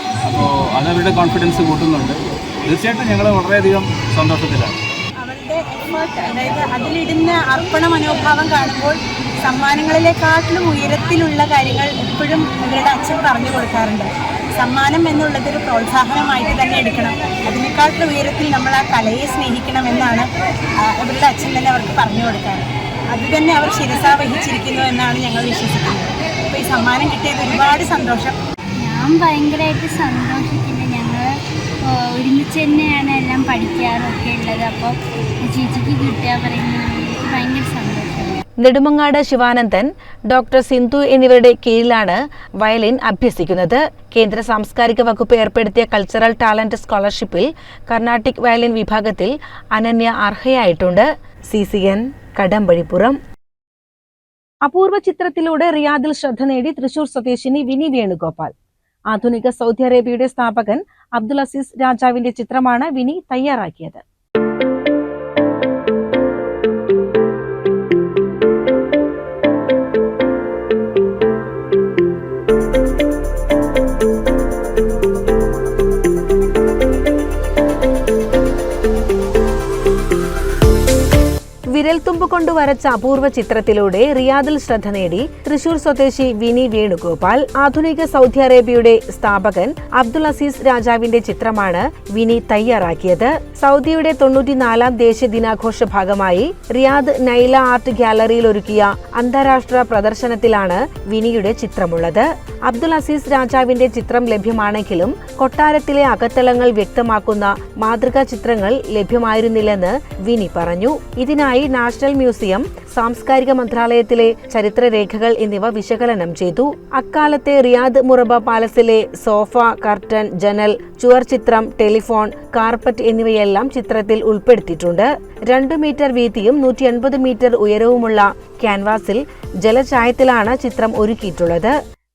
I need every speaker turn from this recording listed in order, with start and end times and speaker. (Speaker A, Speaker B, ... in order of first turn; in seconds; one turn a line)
Speaker A: 0.3-4.8
Speaker B: 5.2-20.3
Speaker B: 20.9-28.3
Speaker C: 28.8-31.2
Speaker C: 31.9-38.4
Speaker D: 38.6-53.2
Speaker E: 54.6-58.5
Speaker E: 59.1-64.0
Speaker D: 81.7-131.8